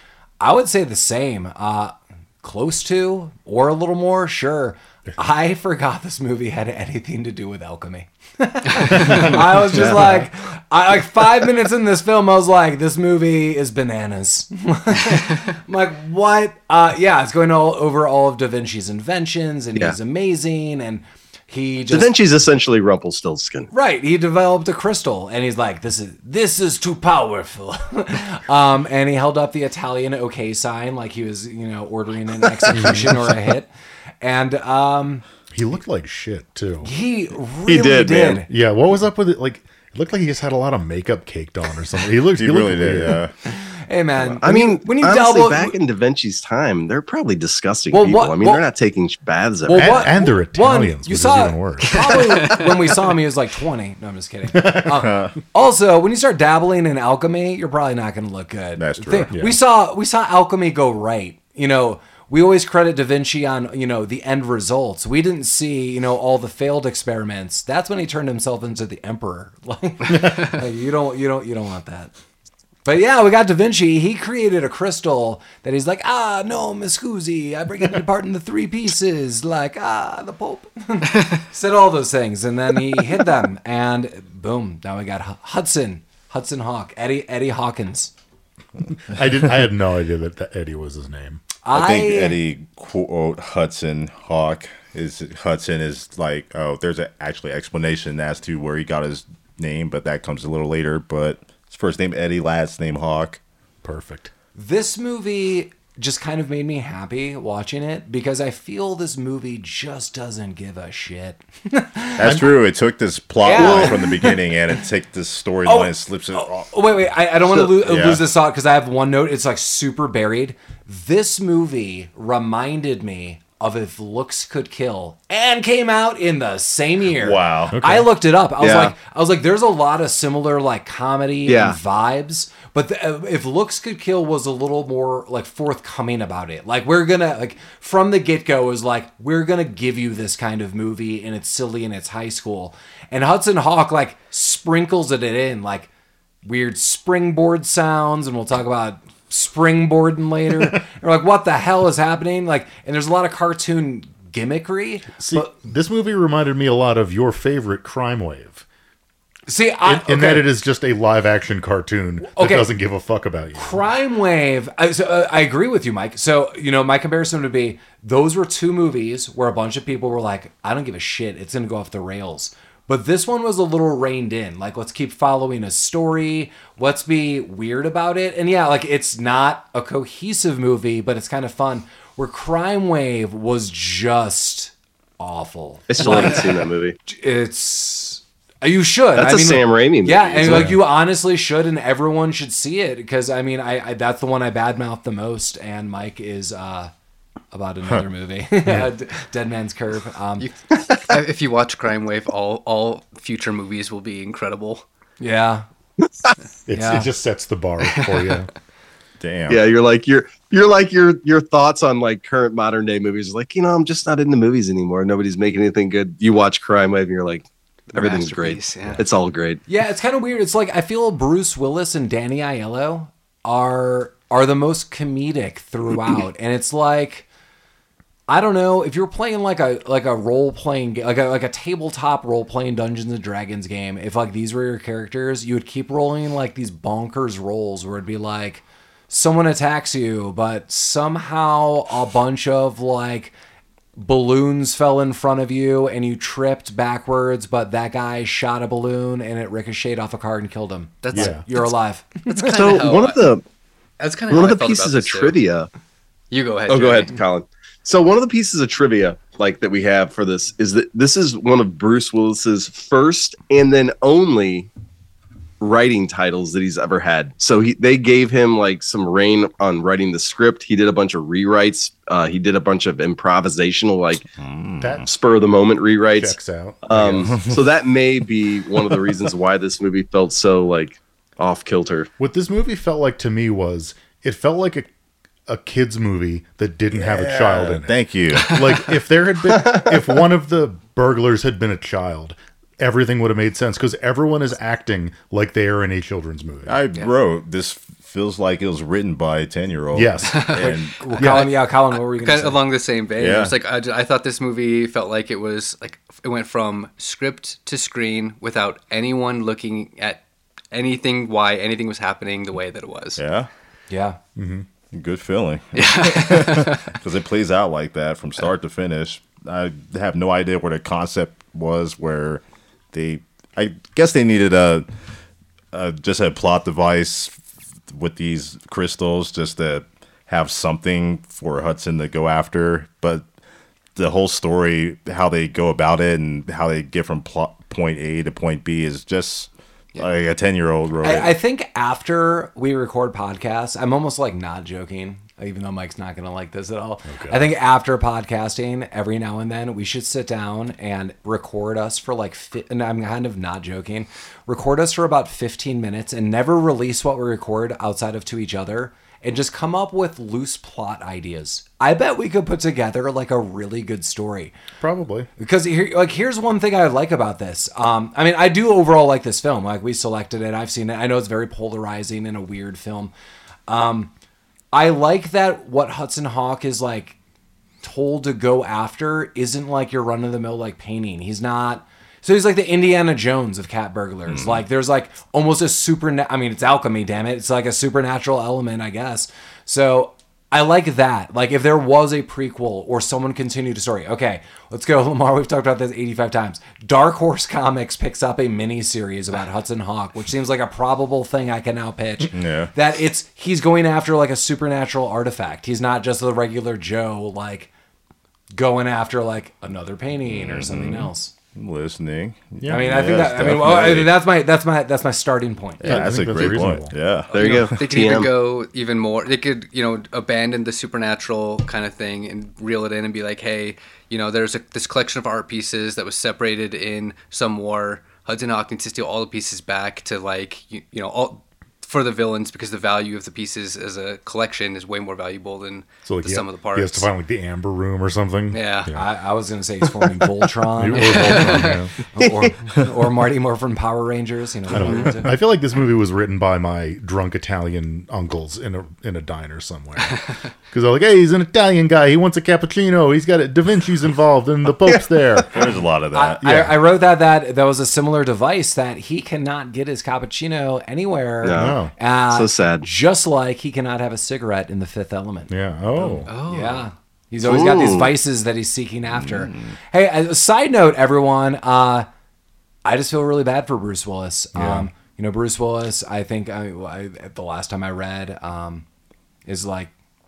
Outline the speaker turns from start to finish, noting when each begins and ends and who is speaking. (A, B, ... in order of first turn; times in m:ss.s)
0:00.4-0:22.2 A
0:09.0-0:09.3 B
0:09.7-0:10.2 C
0:21.9-0:23.7 C
0:23.7-0:33.7 A
0:32.7-0:33.2 B
0:34.2-0:35.2 A
0:35.5-0:36.9 B
0:36.8-0:38.5 A
0:37.7-0:38.4 C
0:38.5-0:43.2 B
0:42.4-0:43.3 D
0:43.4-0:45.8 A
0:44.4-0:50.2 C
0:47.9-0:48.6 A
0:49.6-1:12.1 A
0:49.7-0:52.0 B
0:52.2-0:52.7 E
0:54.5-0:55.0 B
0:55.0-0:55.4 D
0:58.8-0:59.3 D
1:12.8-1:28.1 A
1:28.9-1:31.4 B
1:31.6-1:32.4 A
1:31.7-1:43.4 D
1:43.8-1:44.3 B
1:44.5-1:52.5 A
1:52.2-1:56.8 D
1:53.4-1:54.5 A
1:55.6-2:25.9 A
1:57.8-1:58.2 D
2:07.1-2:07.8 D
2:07.7-2:08.1 B
2:08.6-2:08.9 C
2:11.4-2:11.8 C
2:26.4-2:35.5 A
2:35.2-2:38.6 B
2:39.5-2:40.5 A
2:39.8-2:43.8 B
2:42.3-2:42.7 A
2:43.6-3:16.9 A
3:05.9-3:07.0 C
3:09.2-3:10.8 C
3:10.4-3:10.8 B
3:17.5-3:20.5 A
3:20.4-3:24.8 E
3:25.2-3:25.6 A
3:26.7-3:28.5 B
3:26.7-3:27.1 A
3:29.2-3:29.6 D
3:29.5-3:39.6 C
3:37.9-3:39.0 E
3:39.7-3:47.3 A
3:48.3-4:03.3 A
4:04.0-4:12.8 A
4:11.0-4:11.7 E
4:11.1-4:11.4 B
4:12.4-4:13.2 E
4:12.4-4:13.4 C
4:14.0-4:15.4 E
4:14.3-4:15.7 C
4:16.3-4:17.2 E
4:16.7-4:24.7 C
4:25.6-4:34.2 C
4:34.3-4:35.1 D
4:34.8-4:35.1 B
4:35.0-4:42.1 C
4:36.2-4:37.3 B
4:37.2-4:37.6 D
4:42.2-4:44.9 B
4:45.5-4:56.8 B
4:47.0-4:48.8 D
4:56.6-5:01.0 D
4:59.9-5:00.5 B
5:00.3-5:13.2 E
5:00.6-5:02.6 A
5:03.2-5:03.6 D
5:13.2-5:13.5 D
5:13.9-5:14.2 A
5:14.4-5:14.6 B
5:14.9-5:24.9 D
5:15.7-5:17.0 E
5:25.7-5:33.2 D
5:34.0-5:41.4 D
5:41.0-6:04.5 A
5:47.1-5:47.4 B
6:04.8-6:05.3 B
6:05.4-6:13.1 A
6:13.7-6:14.1 A
6:14.7-6:17.2 A
6:17.8-6:47.7 A
6:24.3-6:24.6 D
6:42.3-6:42.7 D
6:48.5-6:51.3 A
6:50.2-6:54.2 D
6:52.6-6:52.9 B
6:52.7-6:56.4 A
6:55.8-6:57.8 D
6:55.8-6:56.9 B
6:57.3-6:58.3 C
6:57.3-7:17.1 E
7:16.0-7:19.0 B
7:18.5-7:18.9 E
7:18.9-7:25.3 A
7:20.8-7:21.9 B
7:20.9-7:21.8 E
7:22.2-7:22.5 C
7:24.7-7:35.6 B
7:35.5-7:36.4 D
7:36.1-7:52.1 A
7:36.4-7:36.7 B
7:41.4-7:42.8 C
7:41.5-7:41.9 B
7:45.5-7:46.3 B
7:46.3-7:46.9 E
7:47.4-7:48.1 C
7:49.2-7:49.7 D
7:52.8-7:58.8 A
7:54.5-7:54.9 B
7:59.4-7:59.9 A